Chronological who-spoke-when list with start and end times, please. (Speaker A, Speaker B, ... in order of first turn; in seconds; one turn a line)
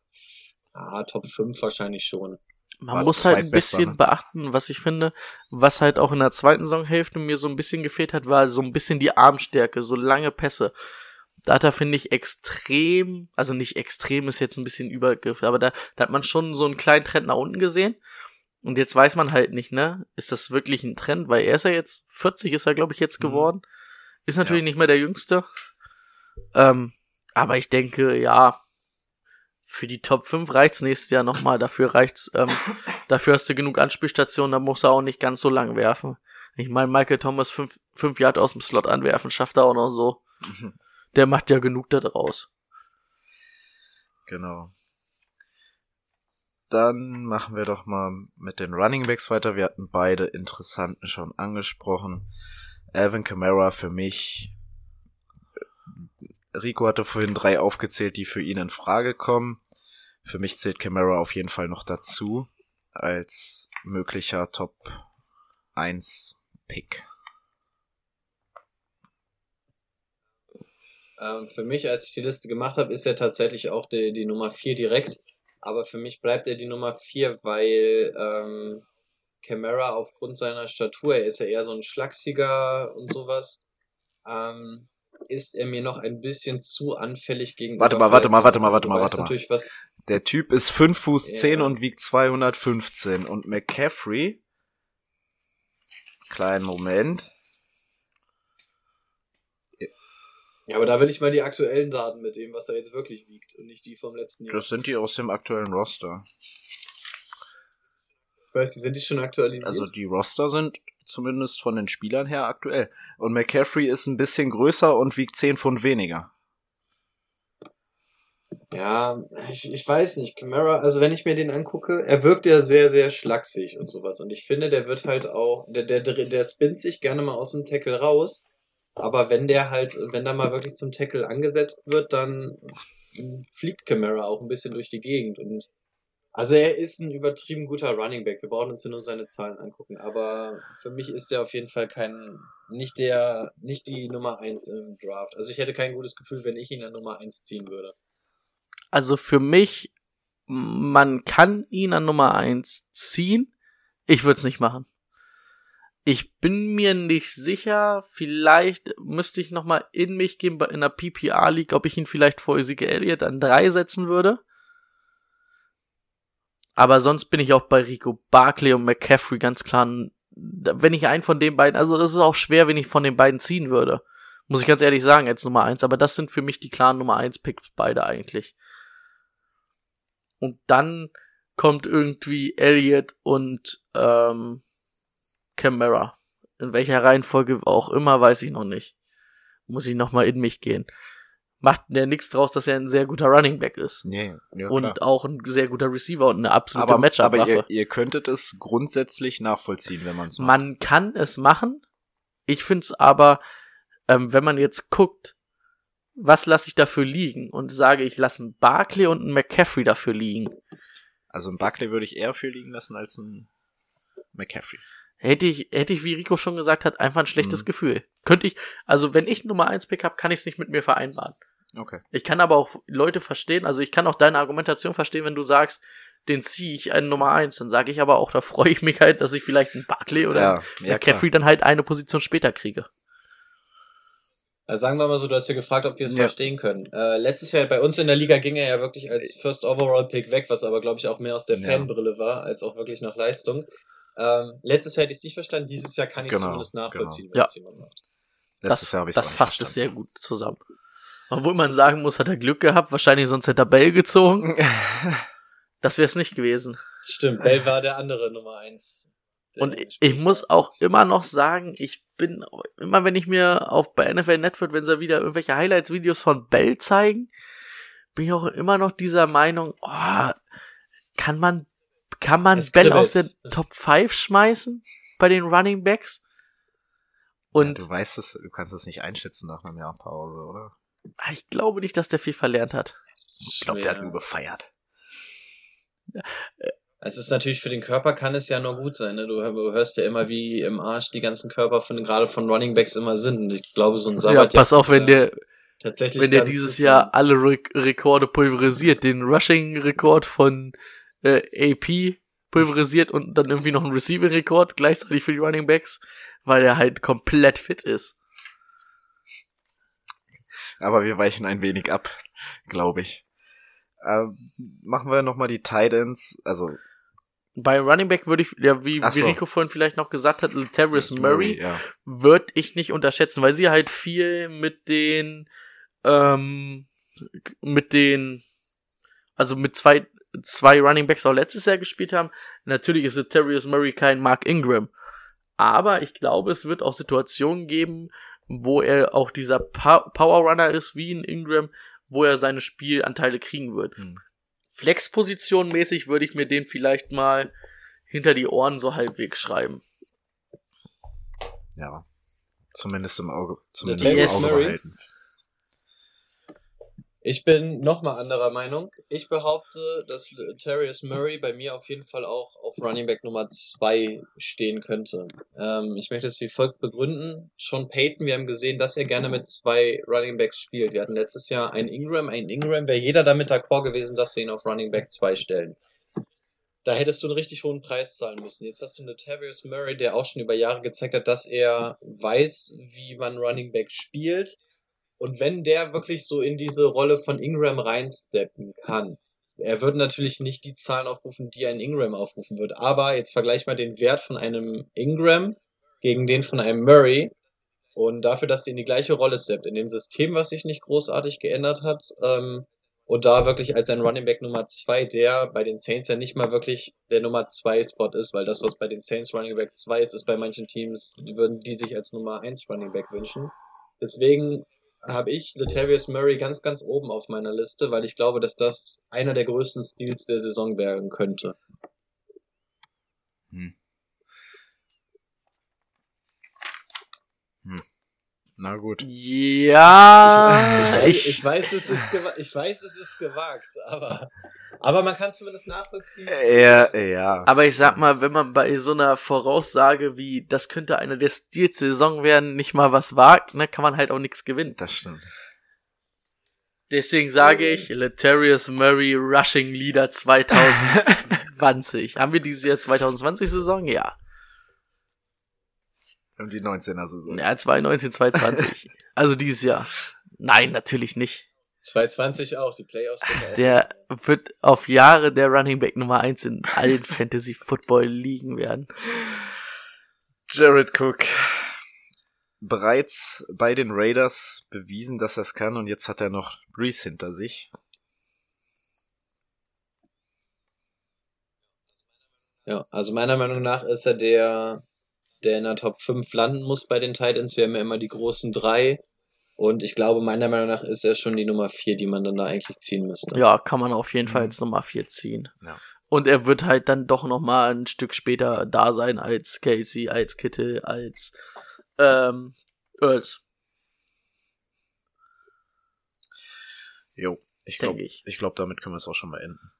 Speaker A: 0.2-2.4
Speaker B: 2.8-10.7
Speaker C: 2.9-4.0
Speaker B: 11.4-18.0
Speaker B: 18.6-23.6
Speaker C: 23.2-23.5
Speaker B: 24.2-25.4
Speaker B: 26.5-28.6
Speaker B: 29.7-40.2
Speaker C: 40.4-40.7
Speaker B: 41.1-42.5
Speaker C: 44.3-44.7
Speaker C: 46.7-52.3
Speaker C: 52.9-54.5
Speaker C: 55.9-59.6
Speaker C: 60.2-65.0
Speaker C: 65.7-67.0
Speaker A: 71.2-78.8
Speaker A: 79.4-83.6
Speaker A: 84.2-89.7
Speaker C: 87.8-89.3
Speaker C: 90.0-94.4
Speaker A: 91.2-91.7
Speaker C: 96.3-97.3
Speaker A: 100.7-104.7
Speaker C: 104.5-106.3
Speaker A: 108.5-109.9
Speaker C: 109.6-116.3
Speaker A: 118.7-128.5
Speaker A: 129.0-135.7
Speaker A: 136.3-147.9
Speaker B: 148.9-149.9
Speaker B: 150.5-153.5
Speaker B: 154.1-154.9
Speaker B: 156.0-164.4
Speaker B: 166.8-178.5
Speaker B: 180.4-184.6
Speaker B: 185.6-188.9
Speaker B: 189.7-190.9
Speaker B: 191.6-194.0
Speaker C: 194.0-195.0
Speaker B: 194.7-197.6
Speaker C: 196.7-200.6
Speaker B: 200.4-201.8
Speaker B: 202.5-203.4
Speaker B: 204.1-205.3
Speaker B: 206.2-210.6
Speaker C: 211.3-213.5
Speaker C: 214.3-214.8
Speaker B: 215.2-221.4
Speaker C: 217.4-217.7
Speaker C: 221.7-222.0
Speaker B: 222.1-232.9
Speaker C: 230.3-231.2
Speaker A: 234.7-248.0
Speaker C: 236.1-236.3
Speaker C: 241.5-241.9
Speaker C: 246.2-247.2
Speaker C: 248.6-249.8
Speaker B: 248.7-250.6
Speaker B: 251.3-254.5
Speaker C: 254.4-255.3
Speaker B: 255.8-256.8
Speaker A: 257.0-260.5
Speaker B: 259.6-267.3
Speaker B: 268.1-270.4
Speaker B: 271.2-271.7
Speaker B: 272.2-276.2
Speaker A: 272.5-273.3
Speaker B: 277.5-277.8
Speaker C: 277.6-280.7
Speaker B: 281.2-283.0
Speaker A: 283.1-284.2
Speaker C: 283.4-284.7
Speaker B: 286.1-286.7
Speaker A: 287.0-295.2
Speaker B: 294.2-295.3
Speaker A: 295.8-297.1
Speaker B: 296.2-308.1
Speaker C: 310.8-313.2
Speaker C: 314.0-316.8
Speaker B: 317.6-325.5
Speaker C: 319.0-319.4
Speaker C: 320.9-321.8
Speaker B: 326.0-326.9
Speaker B: 327.6-328.4
Speaker B: 329.4-334.9
Speaker B: 335.6-344.0
Speaker B: 344.7-347.5
Speaker B: 348.1-349.8
Speaker C: 351.8-352.0
Speaker C: 352.7-355.0
Speaker A: 353.8-354.8
Speaker B: 354.0-354.8
Speaker A: 357.2-375.8
Speaker A: 376.8-384.6
Speaker A: 385.2-397.3
Speaker A: 397.9-421.6
Speaker C: 428.6-429.0
Speaker B: 429.0-431.4
Speaker C: 430.3-431.1
Speaker A: 430.5-434.3
Speaker A: 434.8-437.6
Speaker C: 436.3-437.5
Speaker B: 437.4-444.8
Speaker C: 444.7-445.3
Speaker B: 446.9-454.1
Speaker A: 447.4-447.8
Speaker C: 456.4-457.4
Speaker B: 457.3-461.4
Speaker A: 461.8-463.9
Speaker B: 463.5-468.9
Speaker C: 470.5-471.8
Speaker C: 472.6-477.7
Speaker A: 482.7-484.8
Speaker A: 485.4-489.0
Speaker A: 489.6-493.4
Speaker B: 493.3-495.5
Speaker C: 494.3-494.5
Speaker B: 496.1-501.3
Speaker B: 502.0-503.4
Speaker C: 507.2-509.6
Speaker B: 507.8-508.2